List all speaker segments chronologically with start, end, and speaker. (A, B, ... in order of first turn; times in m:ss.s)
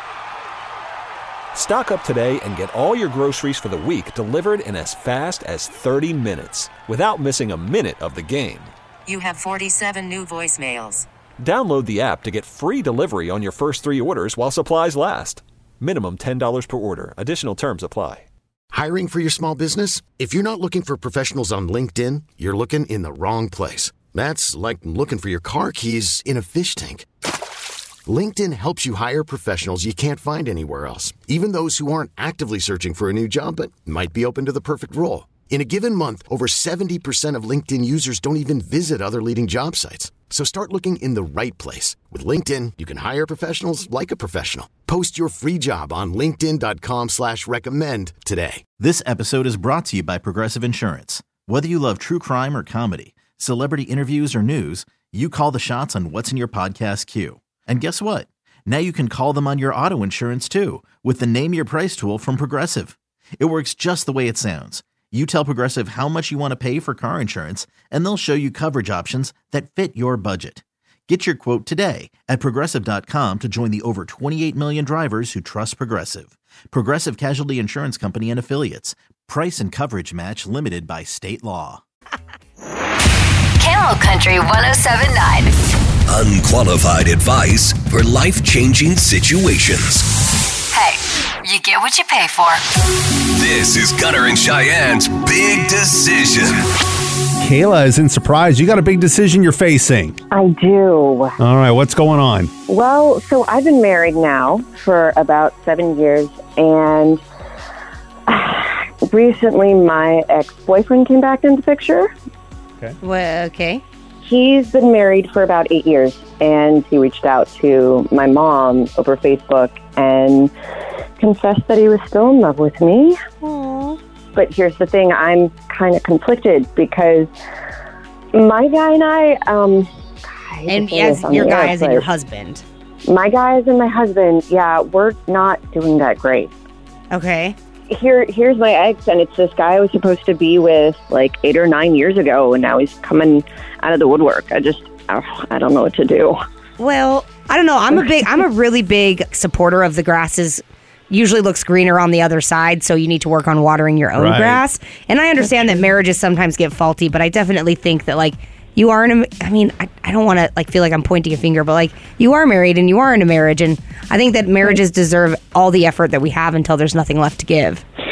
0:01.5-0:08.7 A
0:09.1-0:11.1 B
0:11.4-0:18.3 A
0:18.7-0:27.1 C
0:28.1-0:48.6 C
0:48.8-1:21.8 D
1:23.6-1:25.6 E
1:26.1-1:30.1 F
1:30.7-1:32.6 E
1:33.2-1:36.6 F
1:37.4-1:40.2 G
1:40.3-1:41.4 H
1:41.4-1:42.5 G
1:42.7-1:47.2 H
1:48.3-1:52.1 H
1:53.0-1:53.8 I
1:54.2-2:00.5 H
2:01.2-2:03.2 H
2:03.4-2:04.0 I
2:04.4-2:07.3 H
2:08.3-2:12.1 H
2:10.7-2:12.6 I
2:13.1-2:16.5 H
2:17.1-2:17.6 I
2:17.9-2:26.4 H
2:26.8-2:47.8 I
2:34.2-2:34.6 G